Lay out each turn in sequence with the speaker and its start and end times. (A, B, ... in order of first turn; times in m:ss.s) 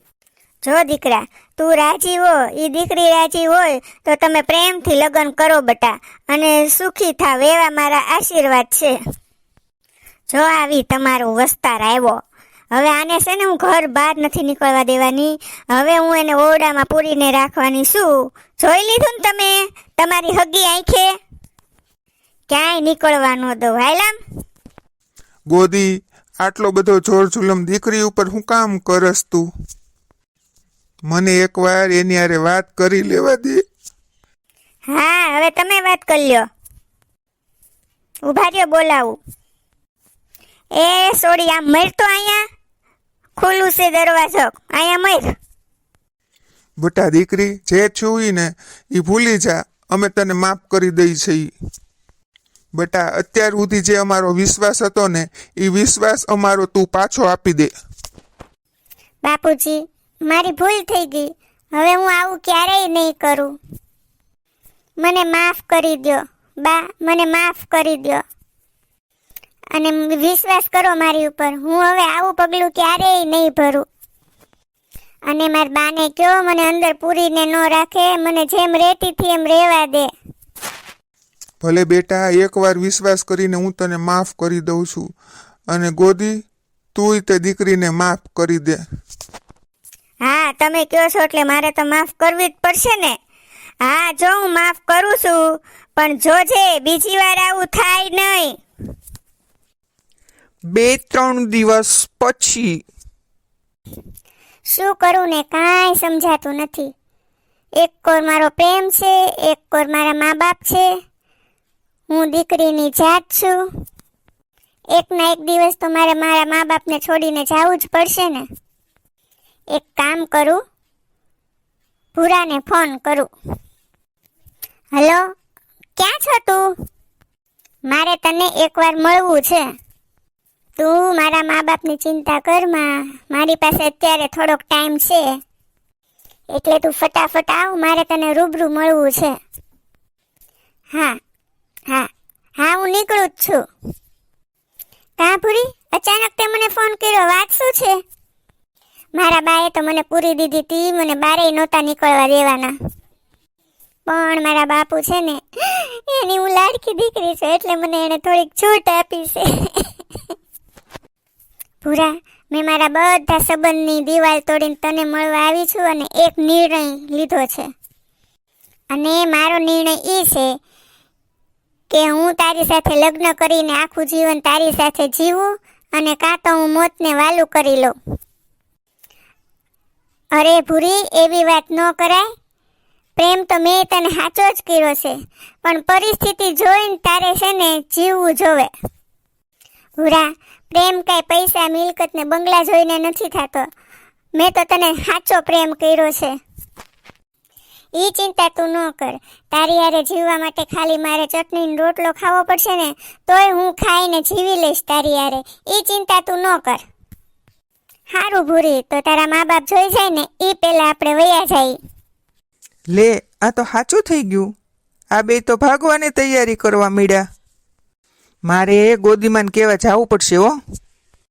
0:00.6-0:09.0 A
0:10.3-0:12.2 A
0:12.7-0:21.1 A
0:22.5-0:24.2 A
0:25.5-0:29.5 B
0:31.1-0:33.6 B
0:34.9-0:36.4 A
0:38.3-0:39.2 A
0:40.8-0:42.4 A
0:43.4-0:45.3 A
0:46.8-0:51.5 B
0:52.8-0:57.7 B
0:59.2-1:03.6 A
1:05.0-1:08.2 A
1:09.7-1:13.9 A
1:15.3-1:20.1 A
1:21.6-1:25.1 B
1:25.7-1:26.4 B
1:27.0-1:28.8 B
1:30.2-1:33.2 A
1:33.8-1:38.6 A
1:40.7-1:42.8 C
1:44.7-1:46.9 A
1:47.8-1:50.9 A
1:52.1-1:53.6 A
1:54.9-1:58.4 A
1:59.7-2:00.6 A
2:02.2-2:03.3 A
2:05.0-2:05.2 A
2:06.0-2:06.7 A
2:07.9-2:09.6 A
2:10.8-2:15.3 A
2:16.5-2:19.3 A
2:20.9-2:21.2 A
2:22.6-2:23.6 A
2:25.2-2:28.0 A
2:29.2-2:32.8 A
2:34.1-2:40.0 A
2:41.8-2:47.7 A
2:48.9-2:50.5 A
2:51.9-2:58.0 A
3:00.4-3:02.2 A
3:03.2-3:08.7 A
3:10.0-3:13.7 A
3:14.4-3:16.3 A
3:18.0-3:26.8 A
3:28.1-3:31.8 A
3:32.9-3:34.5 C
3:35.1-3:37.2 C
3:38.5-3:40.6 C